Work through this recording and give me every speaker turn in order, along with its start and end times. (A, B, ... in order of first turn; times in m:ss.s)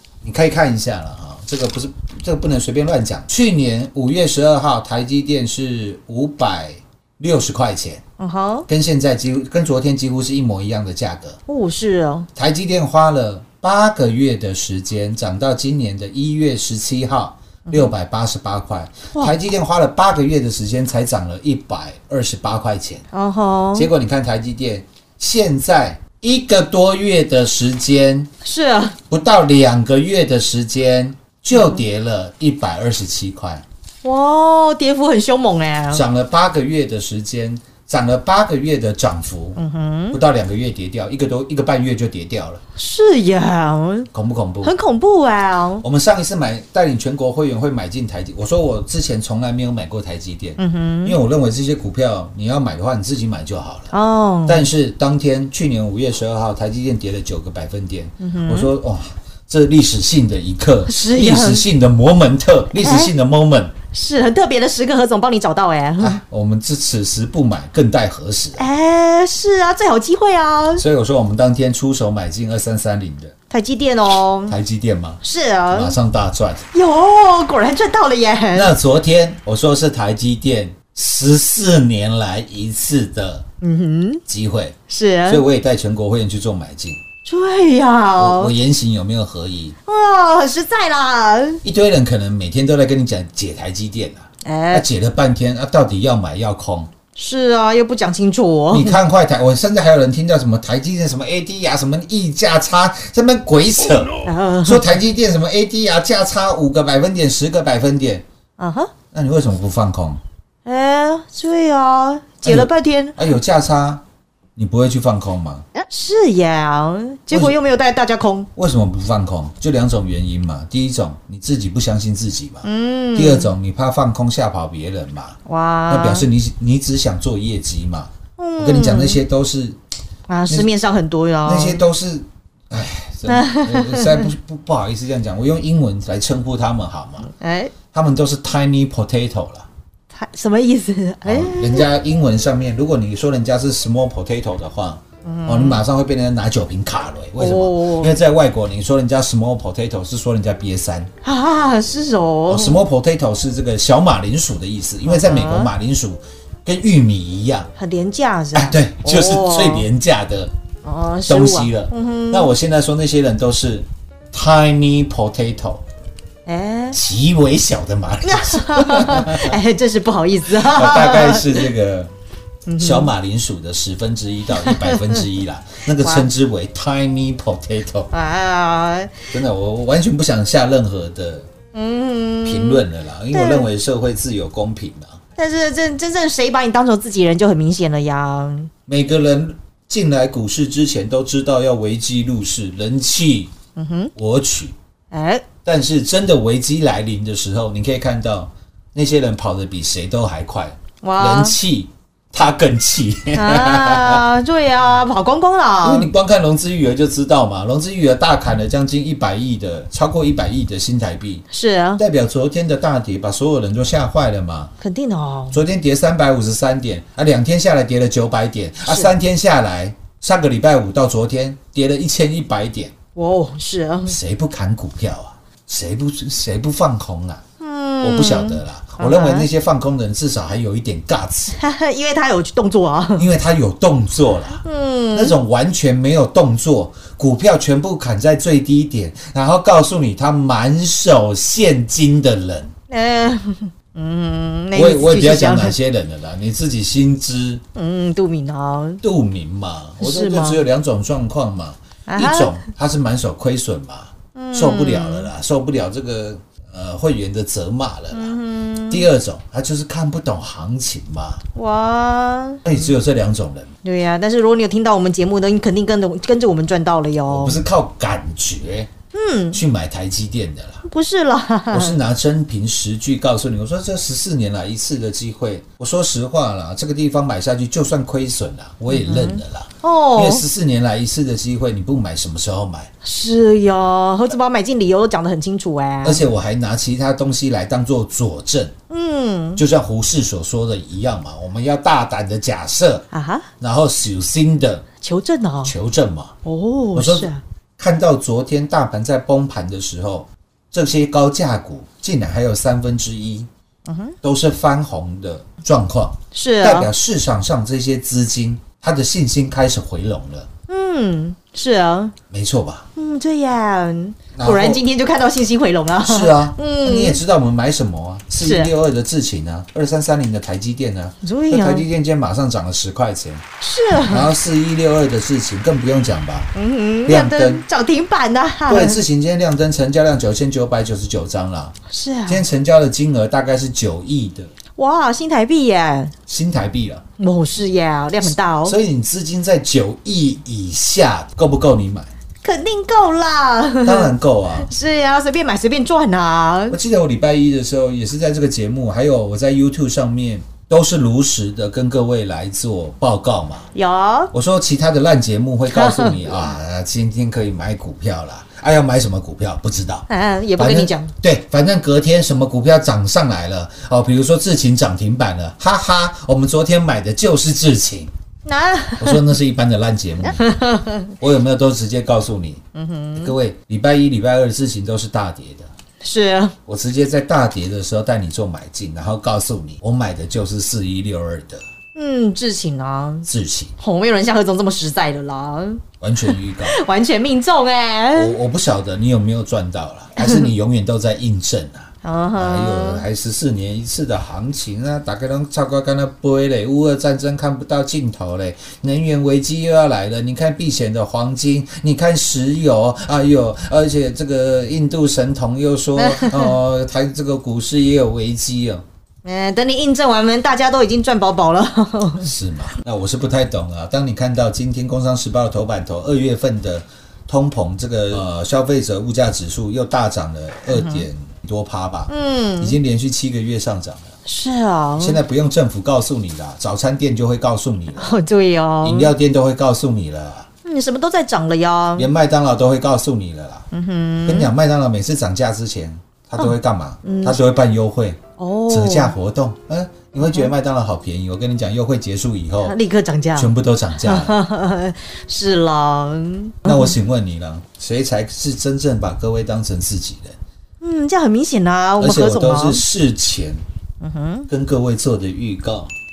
0:00.2-0:08.0 A
0:08.2-0:08.7 B
0:08.7-0:11.4 A
0:11.5-0:12.3 B
0:12.4-0:23.0 A
0:23.1-0:23.9 B
0:23.7-0:28.3 A
0:28.4-0:29.0 B
0:29.1-0:33.6 A
0:34.0-0:36.0 B
0:35.9-0:39.6 A
0:39.6-0:40.2 B
0:40.1-0:42.6 A
0:42.8-0:44.1 B
0:44.1-0:44.7 A
0:44.6-0:45.8 B
0:45.8-0:53.9 A
0:50.6-0:51.2 B
0:53.9-0:54.6 B
0:54.4-1:03.7 A
0:58.2-0:58.7 B
1:00.9-1:01.6 B
1:02.8-1:03.1 B
1:03.9-1:06.2 B
1:06.0-1:08.7 A
1:08.6-1:10.8 B
1:10.8-1:13.3 A
1:13.5-1:14.5 B
1:14.5-1:16.6 A
1:15.2-1:15.9 B
1:16.7-1:18.7 B
1:18.5-1:23.5 A
1:23.6-1:24.2 B
1:24.3-1:27.0 A
1:24.9-1:25.4 B
1:27.2-1:28.5 B
1:28.2-1:29.8 A
1:29.9-1:31.6 B
1:31.6-1:36.9 A
1:34.4-1:34.8 B
1:37.2-1:39.0 B
1:38.7-1:48.2 A
1:44.2-1:44.9 B
1:48.6-1:48.9 B
1:49.1-1:50.2 A
1:50.6-1:53.2 B
1:52.4-1:54.0 A
1:54.6-1:55.6 A
1:55.9-1:58.5 B
1:57.3-1:57.6 A
1:58.6-2:09.8 A
2:02.6-2:03.5 B
2:05.5-2:06.2 B
2:08.4-2:09.2 B
2:10.3-2:11.8 B
2:11.4-2:17.3 A
2:13.3-2:14.2 B
2:17.4-2:17.7 B
2:17.9-2:19.7 A
2:20.1-2:21.9 B
2:21.2-2:31.1 A
2:25.2-2:25.8 B
2:27.4-2:28.1 B
2:31.2-2:32.8 B
2:32.5-2:37.7 A
2:35.0-2:35.7 B
2:37.8-2:39.8 B
2:38.5-2:40.5 A
2:40.8-2:42.5 B
2:41.2-2:45.8 A
2:46.5-2:47.0 B
2:46.9-2:49.6 A
2:48.2-2:51.6 B
2:50.5-2:52.1 A
2:52.7-2:53.1 B
2:52.8-2:58.1 A
2:54.6-2:55.0 B
2:56.0-2:56.2 B
2:58.1-2:59.3 B
2:59.3-3:01.5 A
3:01.7-3:03.7 B
3:02.4-3:05.2 A
3:05.4-3:08.7 B
3:08.9-3:13.5 A
3:13.8-3:14.1 B
3:14.2-3:14.7 A
3:15.1-3:15.4 B
3:15.6-3:24.2 A
3:21.0-3:21.6 B
3:23.3-3:26.1 B
3:25.8-3:31.4 A
3:31.5-3:32.0 B
3:32.0-3:34.7 A
3:34.8-3:35.6 B
3:35.5-3:42.9 A
3:38.9-3:39.1 B
3:43.2-3:44.2 B
3:44.0-3:47.4 A
3:47.6-3:49.5 B
3:48.0-3:51.6 A
3:51.6-3:53.2 B
3:53.2-4:02.7 A
3:54.6-3:55.4 B
4:02.9-4:05.7 B
4:04.7-4:07.6 A
4:07.8-4:09.0 B
4:09.0-4:18.4 A
4:10.0-4:10.6 B
4:12.1-4:12.5 B
4:14.3-4:15.3 B
4:18.1-4:19.1 B
4:18.9-4:21.4 A
4:21.5-4:22.6 B
4:22.6-4:23.7 A
4:23.8-4:27.6 B
4:27.3-4:28.9 A
4:29.1-4:29.6 B
4:29.5-4:30.8 A
4:30.8-4:32.0 B
4:31.7-4:42.9 A
4:38.9-4:40.4 B
4:43.0-4:46.2 B
4:46.0-4:48.7 A
4:48.9-4:49.6 B
4:49.6-4:53.0 A
4:53.1-4:53.5 B
4:53.6-4:54.8 A
4:55.0-4:55.7 B
4:55.6-4:56.4 A
4:56.4-4:57.4 B
4:56.9-5:03.5 A
5:03.9-5:04.1 B
5:04.2-5:10.5 A
5:06.3-5:06.9 B
5:10.7-5:12.1 B
5:12.3-5:12.9 A
5:13.0-5:17.2 B
5:14.3-5:14.8 A
5:16.0-5:26.5 A
5:18.4-5:18.7 B
5:21.2-5:21.8 B
5:23.6-5:24.3 B
5:26.5-5:29.0 B
5:27.0-5:27.6 A
5:28.7-5:31.8 A
5:31.9-5:32.4 B
5:32.3-5:34.5 A
5:34.8-5:36.1 B
5:36.3-5:37.0 A
5:37.2-5:38.8 B
5:38.6-5:42.1 A
5:42.4-5:44.1 B
5:43.8-5:44.7 A
5:44.6-5:46.8 B
5:46.7-5:53.7 A
5:53.7-5:54.3 B
5:54.3-6:08.1 A
5:55.7-5:56.3 B
6:00.1-6:01.1 B
6:08.4-6:09.2 B
6:09.0-6:10.4 A
6:10.4-6:11.1 B
6:11.2-6:12.6 A
6:12.7-6:13.3 B
6:13.1-6:15.7 A
6:16.0-6:16.5 B
6:16.6-6:21.6 A
6:21.9-6:23.3 B
6:23.2-6:23.7 A
6:23.8-6:28.3 B
6:26.0-6:26.8 A
6:28.1-6:48.8 A
6:30.2-6:30.5 B
6:32.0-6:33.0 B
6:46.0-6:46.5 B
6:49.2-6:52.3 B
6:52.2-7:04.1 A
7:00.7-7:01.0 B
7:02.1-7:02.7 B
7:04.2-7:05.2 B
7:05.0-7:08.2 A
7:08.0-7:09.1 B
7:08.8-7:10.5 A
7:10.6-7:12.1 B
7:12.0-7:13.7 A
7:13.7-7:14.5 B
7:14.2-7:22.8 A
7:17.0-7:17.4 B
7:18.4-7:19.1 B
7:22.6-7:23.5 B
7:23.3-7:24.4 A
7:24.0-7:26.9 B
7:26.6-7:30.4 A
7:30.8-7:32.8 B
7:32.0-7:33.6 A
7:34.0-7:34.5 B
7:34.5-7:35.9 A